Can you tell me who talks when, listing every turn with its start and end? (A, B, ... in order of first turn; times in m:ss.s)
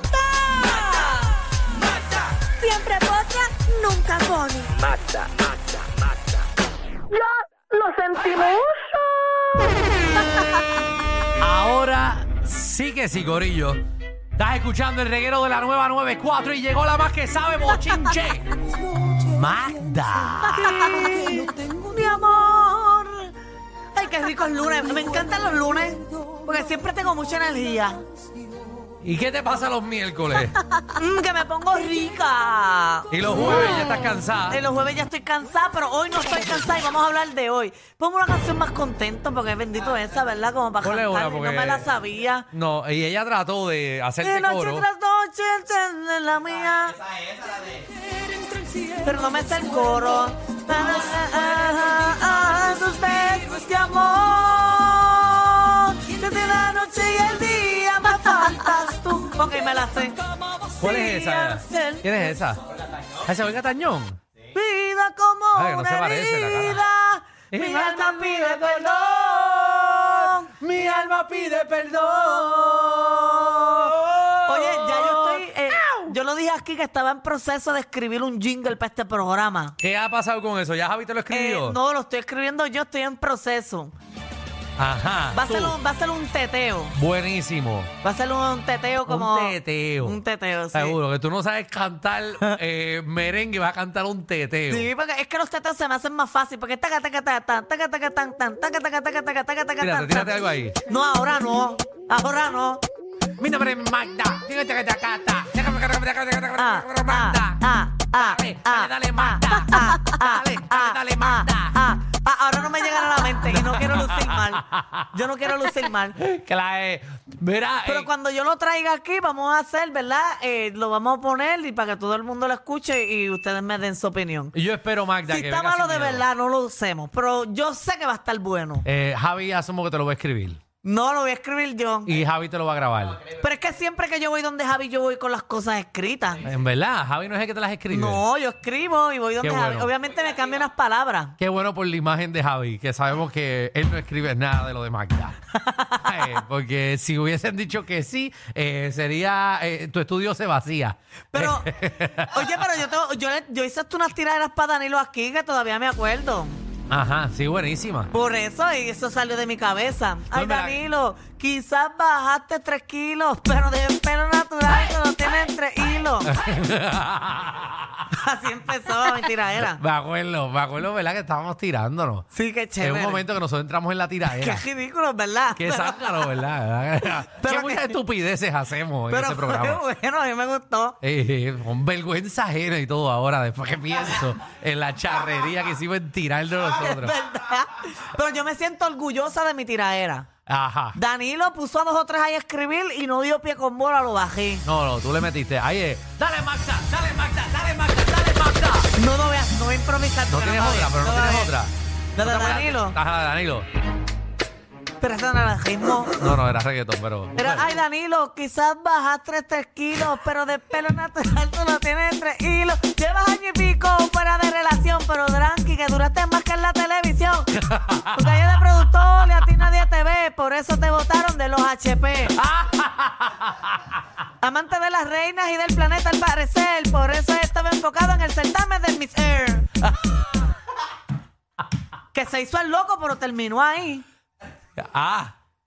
0:00.4-0:01.1 A
0:02.6-0:05.0 A
0:07.7-0:08.7 A
0:11.4-0:13.8 B
0:14.4-0:21.2 B
0:20.5-0:23.3 A
0:23.9-0:28.0 A
0:29.0-0:30.6 B
0:30.5-0:33.7 A
0:33.1-0:34.6 B
0:34.5-0:42.5 A
0:40.8-0:41.9 B
0:42.5-0:44.9 B
0:44.2-0:47.0 A
0:49.0-1:00.2 A
1:00.8-1:02.2 A
1:00.8-1:02.6 B
1:03.2-1:04.2 B
1:04.5-1:10.5 A
1:05.6-1:06.8 B
1:07.5-1:16.1 B
1:12.7-1:13.9 A
1:14.5-1:19.8 A
1:19.8-1:21.8 B
1:21.3-1:23.9 A
1:24.8-1:25.8 B
1:25.3-1:27.0 A
1:27.0-1:27.9 B
1:28.0-1:31.0 A
1:29.1-1:30.2 B
1:30.7-1:34.9 B
1:34.7-1:40.4 A
1:39.8-1:40.8 B
1:40.9-1:42.8 A
1:43.4-1:51.8 B
1:46.6-1:56.2 A
1:53.4-1:58.1 B
1:57.9-2:04.5 A
2:04.5-2:06.3 B
2:05.3-2:08.8 A
2:08.8-2:10.6 B
2:10.8-2:12.2 A
2:12.1-2:13.2 B
2:13.3-2:16.4 A
2:16.4-2:18.2 B
2:17.9-2:21.4 A
2:19.4-2:19.9 B
2:21.4-2:25.4 B
2:25.5-2:26.2 A
2:26.0-2:32.6 B
2:31.3-2:36.6 A
2:36.9-2:38.1 B
2:38.1-2:46.3 A
2:40.3-2:40.8 B
2:46.2-2:48.0 B
2:48.1-2:49.8 A
2:49.2-2:52.3 B
2:52.3-2:53.2 A
2:52.8-2:54.7 B
2:54.3-2:56.2 A
2:55.6-2:59.8 B
2:57.3-2:58.0 A
2:59.1-3:01.0 A
3:01.0-3:07.1 B
3:06.8-3:10.3 A
3:10.5-3:11.0 B
3:11.0-3:14.6 A
3:14.6-3:18.9 B
3:19.0-3:21.5 A
3:20.3-3:23.7 B
3:22.2-3:23.0 A
3:25.0-3:26.2 A
3:26.2-3:27.7 B
3:27.4-3:37.5 A
3:37.6-3:38.6 B
3:38.1-3:42.4 A
3:42.3-3:43.9 B
3:44.4-3:49.6 A
3:49.8-3:50.2 B
3:52.1-3:54.0 A
3:54.8-3:55.4 B